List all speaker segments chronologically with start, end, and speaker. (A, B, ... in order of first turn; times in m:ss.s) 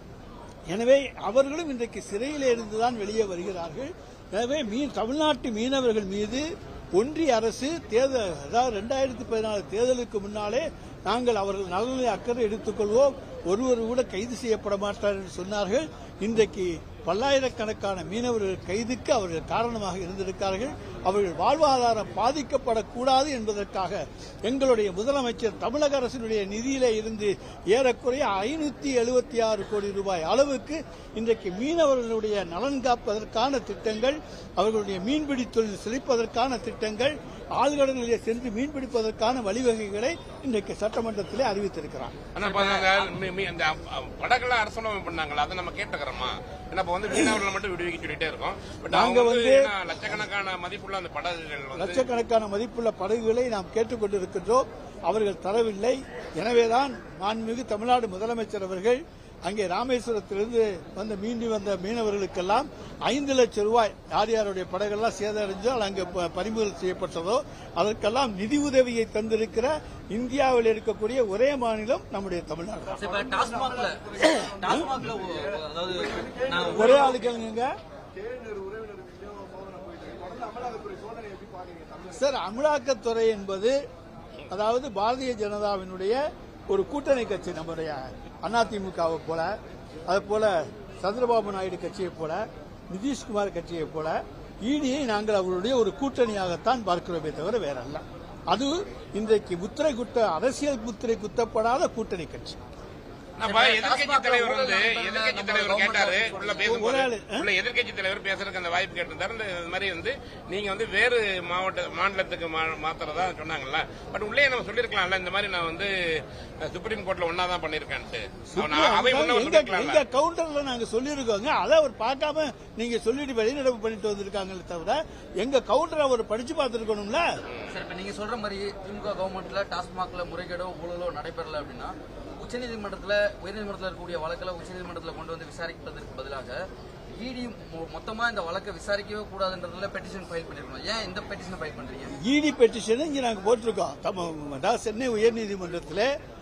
0:00.7-0:42.2 A
0:42.4-0:52.0 B
0:42.4-0:43.0 C
0:48.9-0:50.2 A
0:51.8-1:13.0 A
1:13.0-1:17.3 C
1:16.7-1:17.7 A
1:22.1-1:23.8 A
1:24.5-1:26.2 A
1:26.7-1:29.5 A
1:30.1-1:42.6 A
1:43.4-1:55.9 B
1:43.4-1:46.7 C
1:46.6-1:47.5 A
1:56.6-2:00.0 B
1:58.5-2:07.3 A
2:07.7-2:16.6 C
2:17.2-2:22.1 C
2:22.2-2:26.1 A